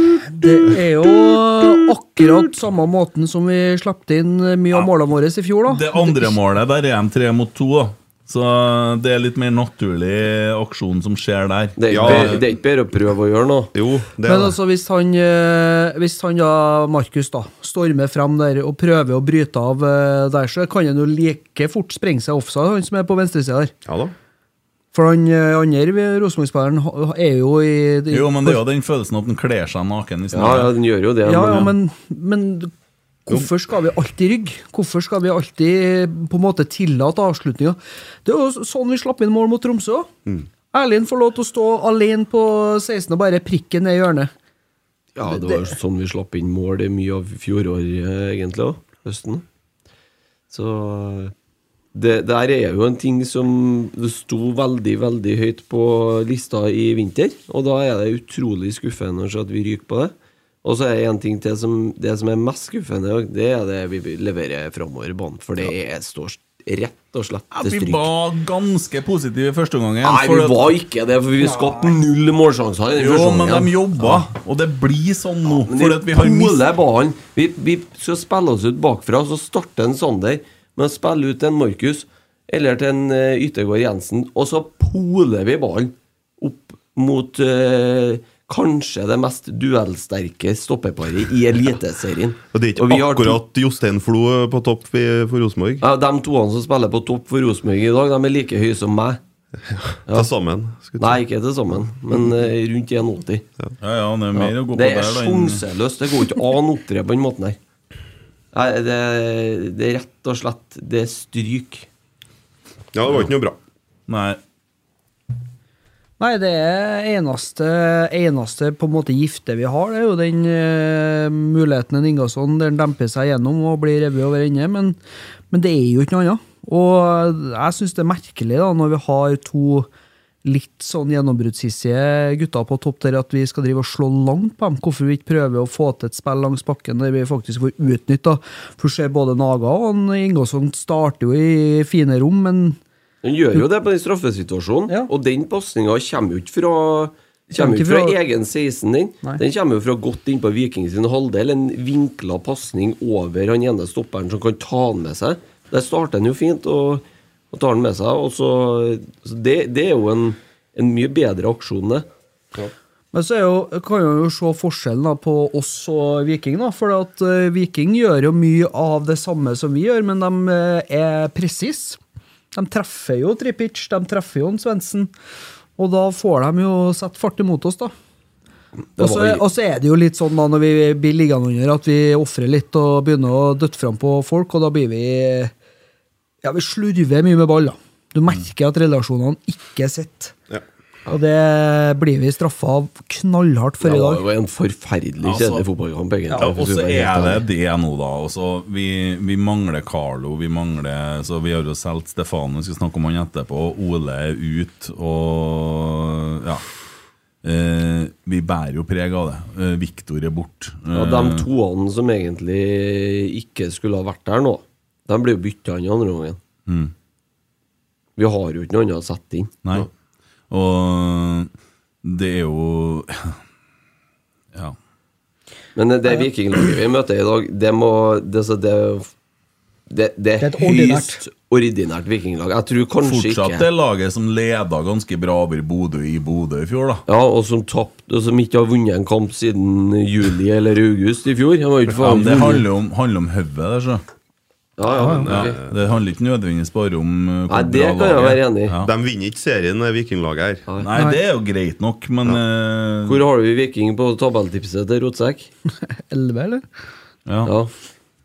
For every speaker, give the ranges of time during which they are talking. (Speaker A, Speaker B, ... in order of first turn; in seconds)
Speaker A: 0.2-6.3, 14.2-23.7, 24.9-28.6, 31.2-32.7, 33.3-40.1, 40.7-44.3, 45.3-45.8, 116.2-125.0, 125.5-129.9, 130.4-142.8, 147.6-148.2, 163.1-172.0, 172.5-175.1, 175.8-177.9, 179.0-185.5, 186.4-190.3, 191.1-194.2, 230.4-231.2, 245.0-245.3, 256.0-256.7
Speaker B: 5.7-12.4, 28.1-30.7, 67.5-70.7, 73.0-76.6, 103.8-105.6, 114.1-114.4, 195.2-195.6, 196.3-206.6, 207.4-211.4, 216.7-216.9, 220.5-221.5, 222.0-223.4, 233.0-237.0, 242.0-244.0, 245.3-248.9, 250.8-253.2, 257.3-257.5
Speaker C: 11.8-13.7, 30.3-31.7, 45.2-49.4, 50.5-51.3, 51.9-68.1, 70.0-74.3, 75.5-93.4, 95.8-99.2, 101.0-103.5, 104.4-107.6, 108.5-111.9, 143.2-162.1, 179.0-179.4, 193.8-197.4, 210.9-216.4, 218.2-219.5, 225.8-229.1, 229.9-233.7, 237.1-242.7, 244.8-245.6, 247.5-248.7, 253.1-255.5, 257.4-257.7
Speaker D: 11.9-12.4, 13.7-14.6, 23.9-24.1, 92.5-95.8, 99.7-101.2, 112.9-113.6, 245.1-245.6, 248.8-250.6